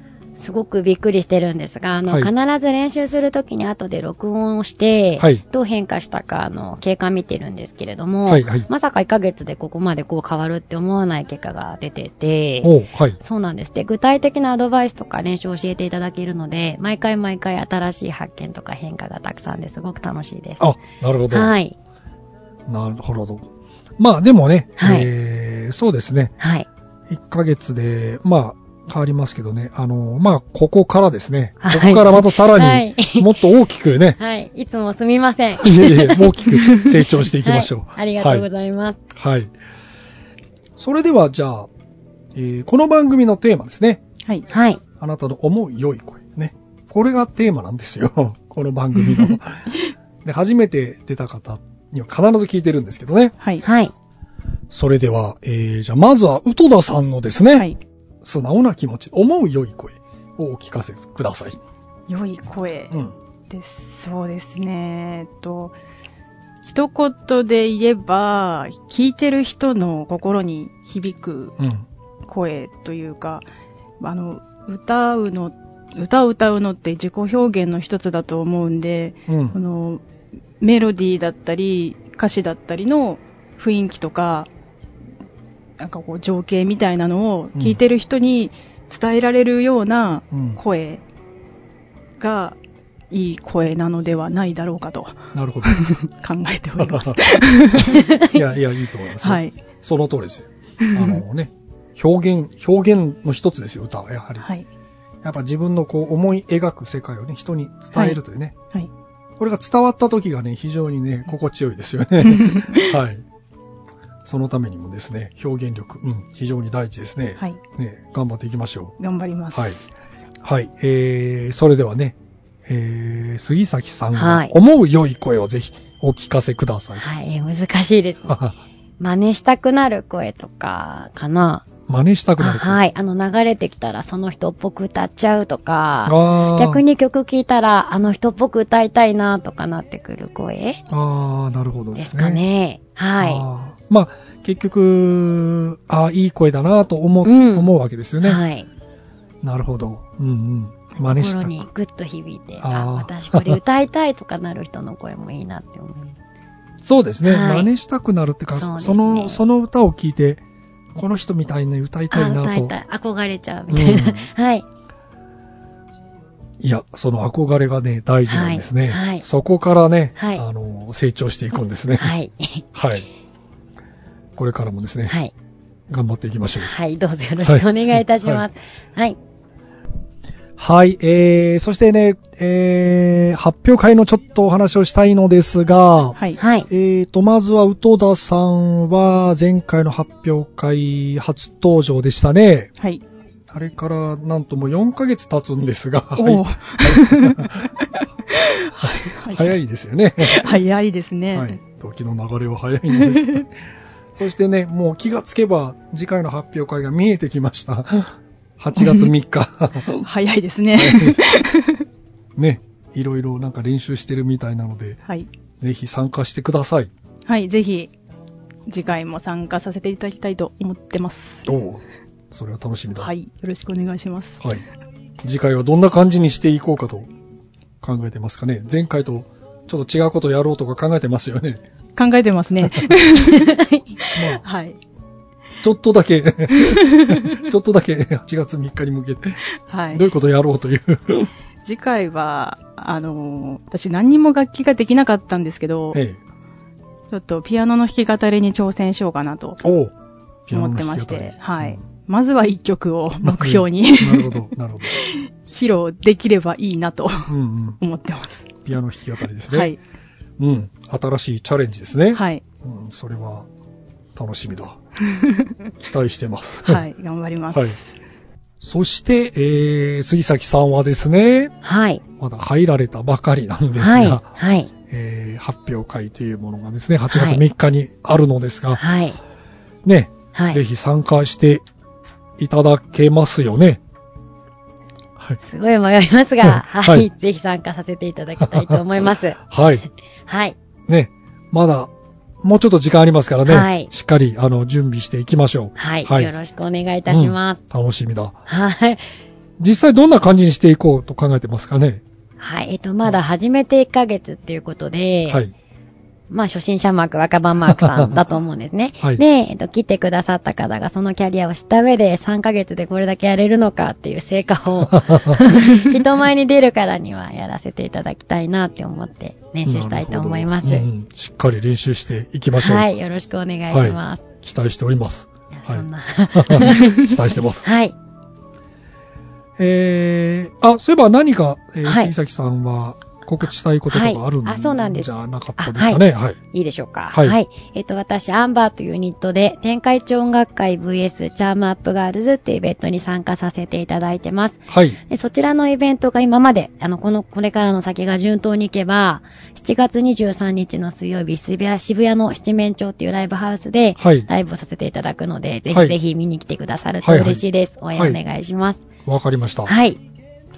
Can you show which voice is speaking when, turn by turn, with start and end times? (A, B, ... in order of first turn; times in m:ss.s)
0:00.4-0:20.7 A
0:08.2-0:08.7 B
0:12.6-0:13.2 B
0:20.6-0:21.5 B
0:21.3-0:21.7 A
0:22.7-0:26.3 B
0:24.8-0:25.1 A
0:26.4-0:26.6 A
0:27.1-0:34.2 B
0:31.6-0:33.3 A
0:34.2-0:36.3 A
0:35.6-0:38.4 B
0:37.4-0:39.0 A
0:39.1-0:39.5 B
0:40.8-0:41.7 B
0:42.3-0:44.0 B
0:44.5-0:44.8 A
0:45.0-0:49.7 B
0:50.2-0:53.3 B
0:53.6-0:53.9 A
0:54.7-0:57.7 B
0:57.5-0:57.8 C
0:58.2-1:01.6 B
1:02.1-1:02.9 C
1:03.5-1:05.7 C
1:06.6-1:11.5 C
1:11.6-1:11.8 B
1:12.2-1:13.4 C
1:14.0-1:20.0 C
1:19.3-1:19.6 B
1:20.6-1:24.5 C
1:25.8-1:31.0 C
1:30.3-1:30.6 B
1:32.2-1:32.6 C
1:33.1-1:38.2 C
1:35.3-1:35.9 B
1:36.8-1:37.2 B
1:37.7-1:44.5 B
1:39.2-1:39.6 C
1:40.8-1:41.2 C
1:45.2-1:48.6 B
1:49.4-1:53.2 B
1:52.2-1:52.9 C
1:54.2-1:59.0 B
1:59.0-1:59.9 C
2:00.4-2:07.1 B
2:04.1-2:04.5 A
2:07.0-2:08.4 A
2:08.3-2:08.5 B
2:09.0-2:11.6 A
2:11.9-2:12.8 B
2:12.4-2:20.8 A
2:16.0-2:16.8 B
2:20.9-2:22.4 B
2:21.9-2:23.4 A
2:23.2-2:28.4 B
2:27.2-2:27.7 A
2:28.2-2:28.7 A
2:29.4-2:31.6 B
2:30.9-2:36.2 A
2:32.6-2:33.6 B
2:36.8-2:40.4 B
2:37.2-2:37.7 A
2:38.5-2:39.4 A
2:40.9-2:42.7 B
2:42.1-2:44.6 A
2:43.7-2:44.3 B
2:46.6-2:52.1 B
2:48.3-2:49.2 A
2:50.2-2:50.4 A
2:52.0-2:52.6 A
2:52.7-2:53.0 B
2:54.4-2:55.1 B
2:55.0-2:55.3 A
2:55.9-2:56.7 B
2:56.6-2:59.2 A
2:57.4-2:58.4 B
3:00.6-3:12.7 B
3:06.4-3:06.7 A
3:13.5-3:17.7 B
3:16.2-3:17.6 C
3:18.3-3:19.5 C
3:18.8-3:20.6 B
3:20.2-3:21.6 C
3:21.3-3:23.5 B
3:22.9-3:23.4 C
3:24.1-3:30.0 B
3:28.8-3:29.1 C
3:30.0-3:31.8 C
3:30.7-3:31.3 B
3:32.4-3:35.0 B
3:35.6-3:36.9 B
3:37.3-3:37.9 C
3:38.7-3:41.4 C
3:41.4-3:43.1 B
3:43.0-3:44.4 C
3:45.2-3:47.1 B
3:47.8-3:51.6 B
3:52.0-3:53.5 C
3:53.4-3:53.8 A
3:54.1-3:54.4 B
3:54.2-3:54.8 C
3:55.6-3:59.4 B
3:56.6-3:57.4 C
3:59.7-4:00.0 C
3:59.9-4:01.3 B
4:01.6-4:06.0 C
4:05.9-4:06.2 B
4:07.1-4:09.6 C
4:09.6-4:09.9 B
4:10.5-4:11.8 B
4:10.5-4:18.6 C
4:13.2-4:15.0 B
4:17.3-4:17.8 B
4:18.6-4:19.8 B
4:19.5-4:19.8 C
4:20.4-4:23.5 B
4:22.1-4:22.4 C
4:24.1-4:24.8 B
4:25.0-4:25.5 C
4:25.8-4:26.8 B
4:26.6-4:28.0 C
4:28.6-4:31.5 B
4:31.6-4:32.0 A
4:32.2-4:34.3 B
4:33.8-4:34.7 A
4:34.9-4:38.8 B
4:37.1-4:37.4 A
4:38.7-4:39.2 A
4:39.8-4:41.6 B
4:40.3-4:40.6 A
4:42.4-4:43.8 B
4:45.4-4:49.4 A
4:46.4-4:47.1 B
4:48.4-4:48.8 B
4:49.5-4:49.8 B
4:50.3-4:50.6 A
4:50.9-4:56.3 B
4:53.4-4:53.9 A
4:55.8-4:57.6 A
4:57.1-4:58.4 B
4:58.5-4:59.0 A
4:59.6-5:02.0 B
5:02.4-5:05.4 A
5:06.3-5:20.9 A
5:07.6-5:08.2 B
5:14.9-5:15.4 B
5:19.6-5:22.9 B
5:22.6-5:24.2 A
5:23.7-5:27.7 B
5:25.5-5:27.9 A
5:29.6-5:36.4 B
5:31.8-5:32.1 A
5:33.9-5:58.8 A
5:44.7-5:45.0 B
5:54.0-5:54.3 B
5:55.7-5:56.0 B
5:57.0-5:57.4 B
5:59.0-5:59.7 B
5:59.6-6:00.0 A